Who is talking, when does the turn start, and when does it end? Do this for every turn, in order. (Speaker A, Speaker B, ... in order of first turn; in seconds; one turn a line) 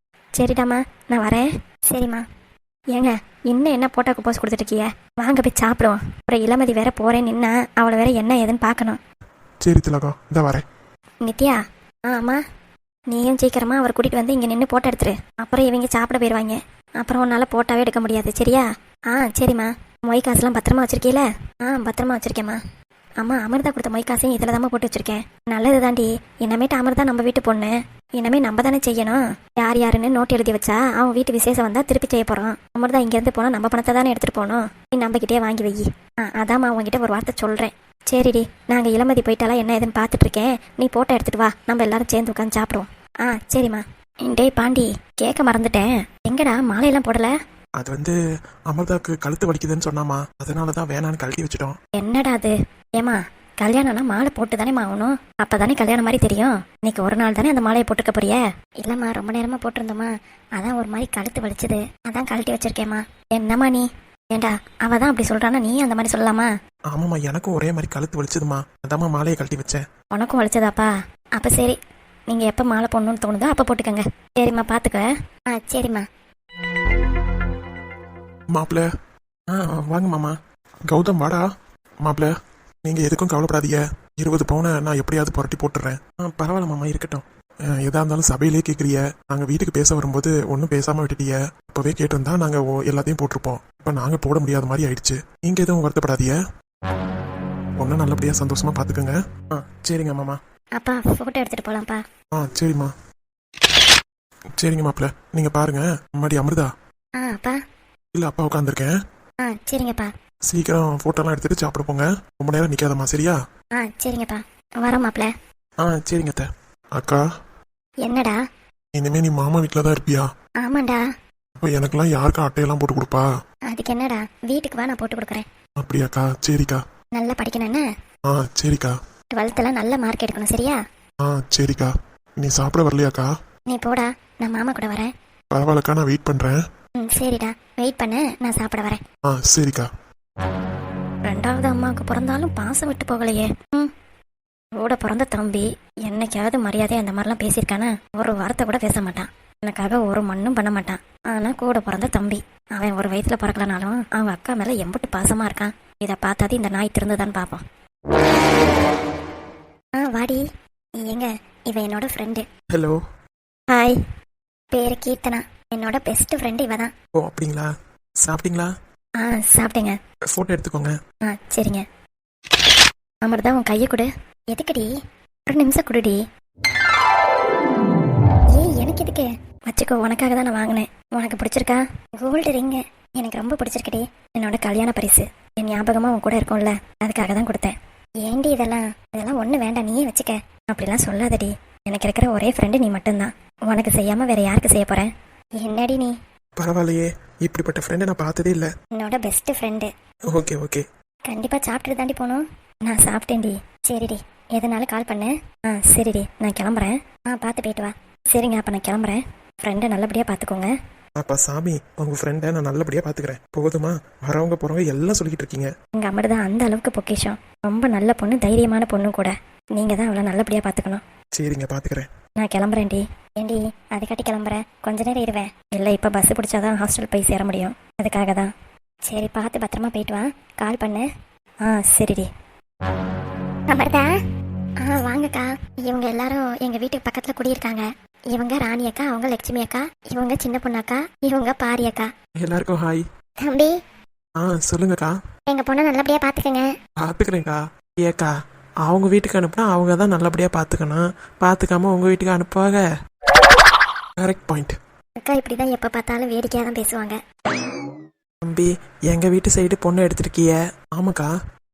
Speaker A: 0.3-2.2
Speaker A: 2.9-9.0
Speaker B: 9.6-10.6
Speaker A: 11.2-12.4
Speaker A: 13.1-22.6
Speaker A: 23.2-47.3
Speaker B: 47.8-48.1
Speaker B: 48.7-51.8
Speaker A: 51.9-66.5
Speaker B: 66.9-69.8
Speaker A: 70.1-71.8
Speaker A: 72.3-76.0
Speaker B: 78.5-78.8
Speaker B: 79.5-81.5
Speaker B: 82.0-82.3
Speaker B: 82.8-96.4
Speaker B: 97.8-100.4
Speaker A: 100.8-102.0
Speaker B: 102.3-102.9
Speaker B: 104.6-106.7
Speaker A: 107.2-107.6
Speaker B: 108.1-108.9
Speaker A: 109.4-110.1
Speaker B: 110.5-113.4
Speaker A: 113.8-115.3
Speaker B: 115.8-116.5
Speaker C: 117.0-117.2
Speaker A: 118.0-118.4
Speaker C: 119.0-120.3
Speaker A: 120.6-121.0
Speaker C: 121.6-123.3
Speaker A: 123.7-125.5
Speaker C: 125.8-126.8
Speaker A: 127.1-127.8
Speaker C: 128.3-128.9
Speaker A: 129.3-130.8
Speaker C: 131.2-133.3
Speaker A: 133.7-135.1
Speaker C: 135.5-136.6
Speaker A: 137.0-139.0
Speaker C: 139.3-139.9
Speaker A: 141.3-143.9
Speaker A: 144.8-157.6
Speaker A: 160.0-160.4
Speaker A: 161.0-162.4
Speaker B: 162.7-163.0
Speaker A: 163.7-164.0
Speaker A: 164.7-166.9
Speaker B: 167.1-168.7
Speaker A: 169.2-170.0
Speaker B: 170.3-171.0
Speaker A: 171.2-171.8
Speaker A: 173.2-174.9
Speaker A: 175.5-176.2
Speaker A: 178.5-196.1
Speaker B: 196.6-198.7
Speaker A: 198.9-199.9
Speaker B: 200.3-200.8
Speaker A: 201.3-210.7
Speaker B: 211.2-215.7
Speaker A: 215.9-221.0
Speaker B: 221.3-222.1
Speaker A: 222.4-228.5
Speaker A: 229.1-231.1
Speaker A: 231.6-232.3
Speaker A: 233.7-234.1
Speaker A: 234.8-242.1
Speaker B: 242.4-243.0
Speaker A: 243.4-243.7
Speaker B: 244.4-245.1
Speaker A: 245.5-246.7
Speaker B: 247.0-252.8
Speaker B: 254.2-254.8
Speaker A: 255.2-257.2
Speaker B: 258.4-261.3